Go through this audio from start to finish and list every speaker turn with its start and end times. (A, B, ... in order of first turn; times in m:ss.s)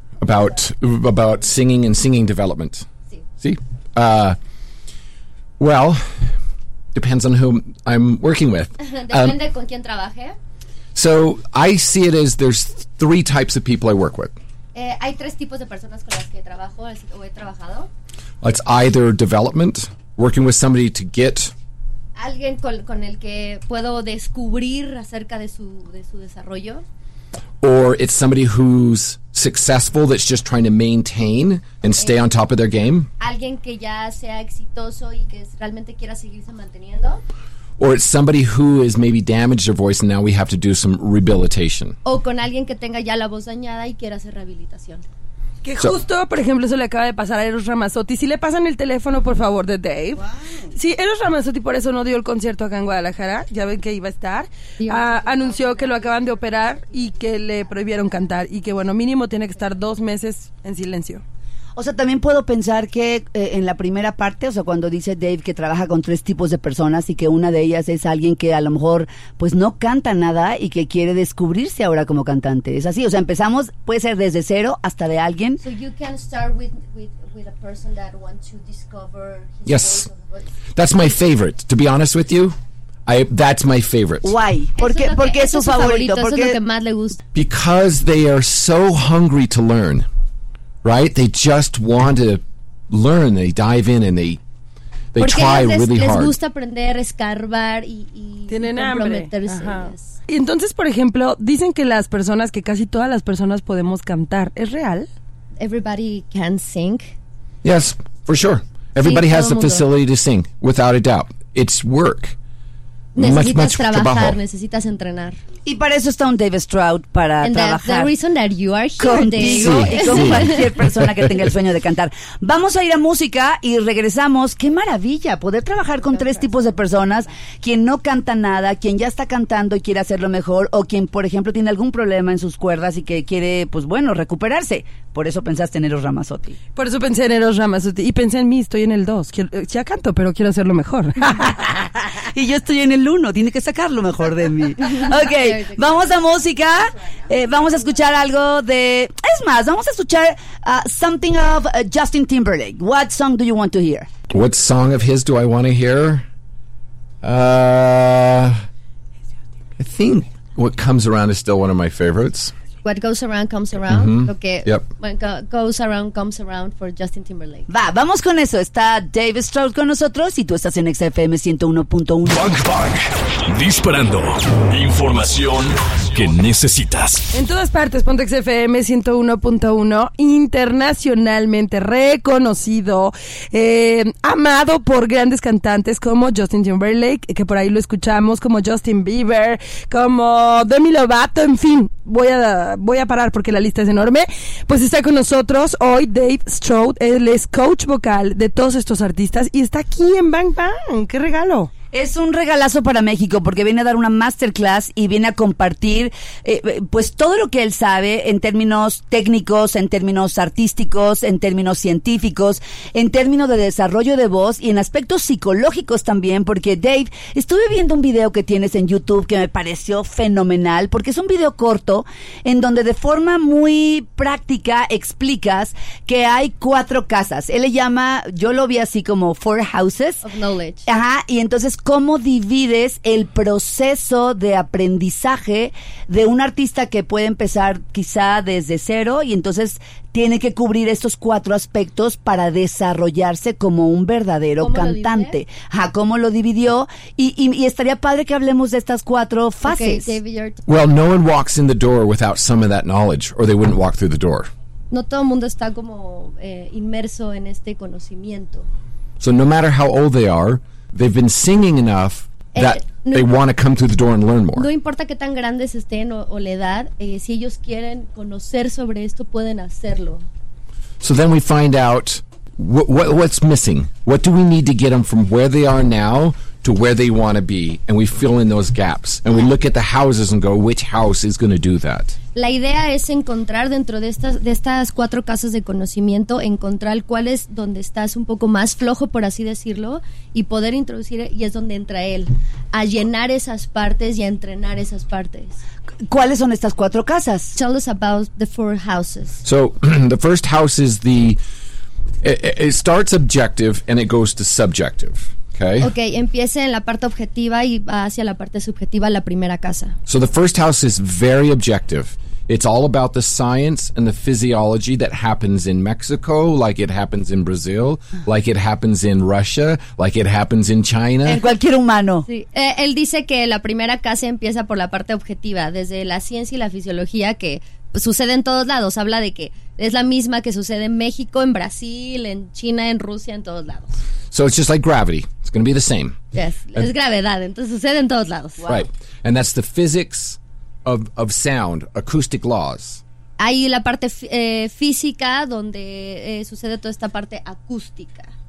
0:00.2-0:02.9 A
0:03.4-0:04.4 A
0:05.6-0:06.3 A
0:06.9-0:09.4 A
0:08.8-0:10.4 B
0:11.0-0:14.4 A
0:14.8-0:17.9 B
0:18.4-0:21.5 A
0:22.2-0:26.8 B
0:27.6-0:33.1 A
0:33.2-0:37.2 B
0:37.8-0:42.0 A
0:42.0-0:45.0 B
0:45.6-1:01.2 C
0:54.8-0:55.2 B
1:01.8-1:15.6 D
1:15.6-1:20.5 B
1:19.7-1:20.1 A
1:20.8-1:24.4 A
1:24.2-1:26.6 D
1:24.8-1:27.2 B
1:27.3-1:30.1 A
1:30.8-1:34.4 A
1:35.2-1:36.4 A
1:35.2-1:40.2 B
1:38.5-1:45.1 C
1:45.6-1:47.1 B
1:47.6-1:52.4 A
1:49.0-1:49.9 B
1:53.2-1:55.4 B
1:53.2-1:54.4 A
1:55.7-1:58.1 D
1:57.4-2:00.7 B
1:59.0-2:16.6 D
1:59.4-2:01.3 A
2:16.8-2:21.4 C
2:21.4-2:34.1 D
2:25.3-2:25.8 B
2:34.3-2:36.2 A
2:37.2-2:38.6 A
2:39.8-2:42.5 A
2:42.8-2:47.7 B
2:43.9-2:44.8 A
2:47.7-2:52.5 D
2:52.3-2:57.3 E
2:57.3-3:21.7 C
3:21.9-3:50.2 D
3:50.2-3:50.9 B
3:50.9-4:10.2 D
4:04.6-4:05.4 B
4:09.6-4:10.6 B
4:10.7-4:14.5 A
4:14.9-4:18.7 B
4:19.2-4:24.7 A
4:22.5-4:23.3 B
4:24.6-4:30.2 B
4:31.0-4:42.2 A
4:42.4-4:55.6 B
4:56.1-4:57.6 D
4:57.6-4:59.4 B
4:59.4-5:01.4 A
5:02.2-5:05.9 A
5:05.8-5:10.0 B
5:10.1-5:21.4 A
5:21.2-5:22.3 D
5:22.3-5:34.0 B
5:34.3-5:36.2 A
5:36.3-5:38.8 B
5:38.7-5:43.0 A
5:43.4-5:48.3 B